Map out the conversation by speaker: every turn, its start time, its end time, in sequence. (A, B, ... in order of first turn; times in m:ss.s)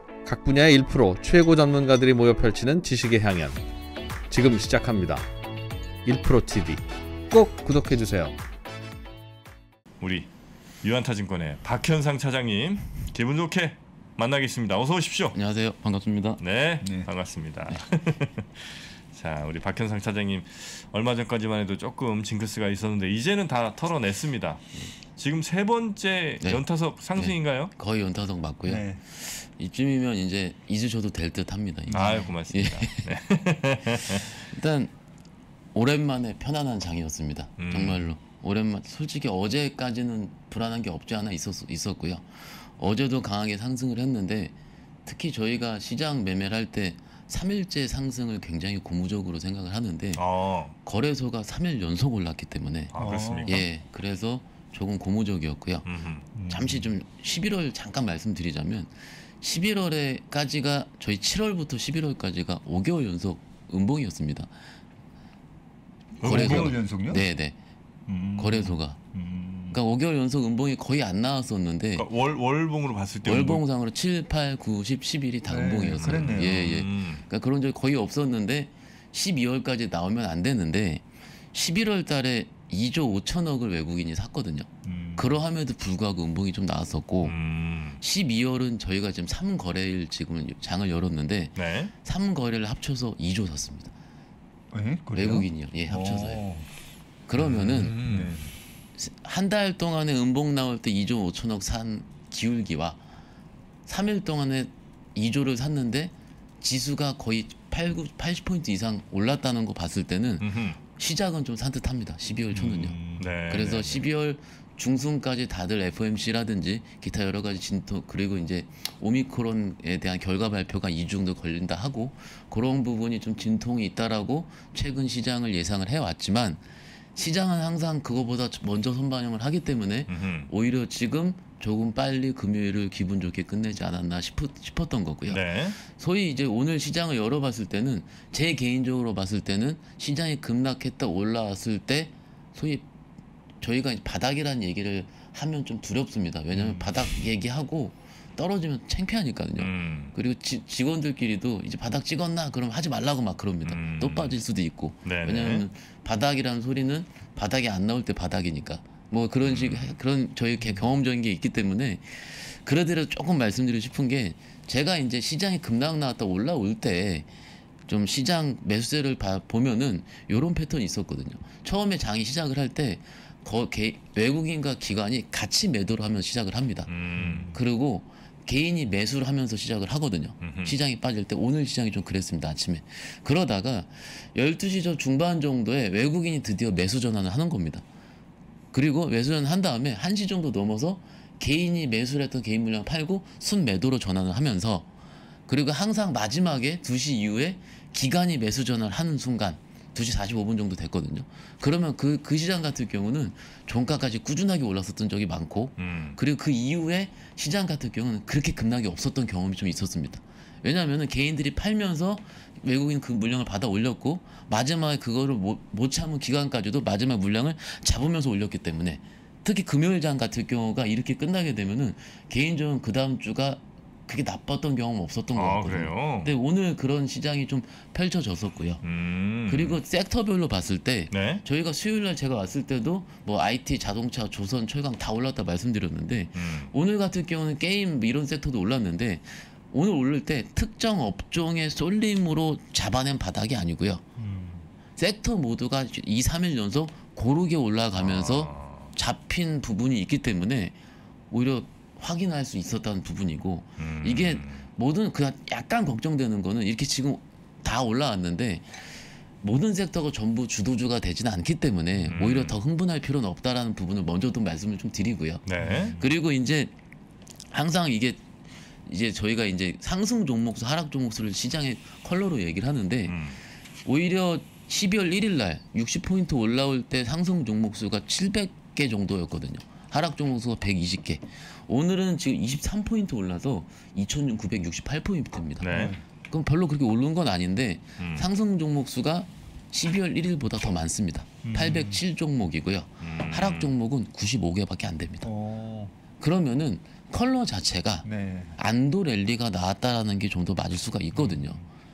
0:00.2-0:03.6 A
0:04.3-0:05.2 A
0:06.0-0:08.3 A
0:10.0-0:10.3 B
0:10.8-0:15.4 B
0:15.3-0:16.4 C
0:16.4-0:27.7 B
0:16.8-0:17.1 D
0:26.4-0:33.0 C
0:28.6-0:29.0 D
0:31.9-0:32.2 D
0:31.9-0:34.3 B
0:34.1-0:34.9 C
0:35.7-0:44.5 C
0:37.6-0:38.0 B
0:45.0-0:50.2 C
0:50.1-0:50.7 B
0:50.8-0:52.9 C
0:52.9-0:53.6 B
0:52.9-0:53.6 D
0:53.4-0:55.9 C
0:55.8-0:56.2 B
0:56.3-0:56.9 D
0:56.5-1:04.5 C
1:06.2-1:06.8 B
1:06.2-1:07.3 D
1:06.2-1:07.6 C
1:08.1-1:09.8 D
1:08.4-1:09.0 C
1:09.7-1:12.0 C
1:12.0-1:13.6 B
1:13.2-1:27.4 C
1:15.4-1:16.8 D
1:16.0-1:17.2 B
1:24.8-1:25.4 D
1:27.2-1:28.0 B
1:28.0-1:33.9 C
1:31.6-1:31.9 B
1:34.7-1:36.7 D
1:35.1-1:36.4 C
1:37.3-1:38.0 C
1:37.4-1:38.5 D
1:37.7-1:38.4 B
1:39.0-1:43.0 C
1:43.8-1:53.0 C
1:50.4-1:50.8 B
1:52.5-1:53.3 D
1:53.2-1:54.1 B
1:53.5-2:06.6 C
2:07.1-2:22.8 C
2:10.1-2:10.5 B
2:15.3-2:15.8 B
2:23.6-2:47.3 C
2:29.6-2:30.1 B
2:33.6-2:34.4 B
2:35.0-2:35.6 B
2:39.4-2:39.9 B
2:47.9-3:07.8 C
2:56.9-2:57.5 B
2:57.1-2:57.6 D
3:00.4-3:00.8 B
3:08.7-3:14.8 C
3:15.5-3:48.8 C
3:25.8-3:26.2 B
3:45.3-3:46.3 B
3:48.8-3:49.8 B
3:49.5-4:04.0 C
3:51.1-3:51.4 B
3:56.3-3:56.7 B
4:04.2-4:04.7 D
4:05.0-4:10.7 C
4:08.0-4:08.9 B
4:11.3-4:18.9 C
4:13.8-4:14.6 B
4:19.4-4:25.4 C
4:22.1-4:22.6 B
4:25.4-4:26.0 B
4:25.6-4:26.0 D
4:25.9-4:26.7 C
4:27.5-4:28.2 C
4:28.8-4:33.2 C
4:33.1-4:33.4 B
4:33.8-4:45.7 C
4:45.6-4:46.0 B
4:45.6-4:46.0 D
4:46.3-4:55.3 C
4:48.0-4:48.3 B
4:51.4-4:52.0 D
4:53.0-4:53.7 B
4:55.2-4:55.9 D
4:56.2-5:01.6 C
4:58.0-4:58.6 D
5:01.1-5:01.6 D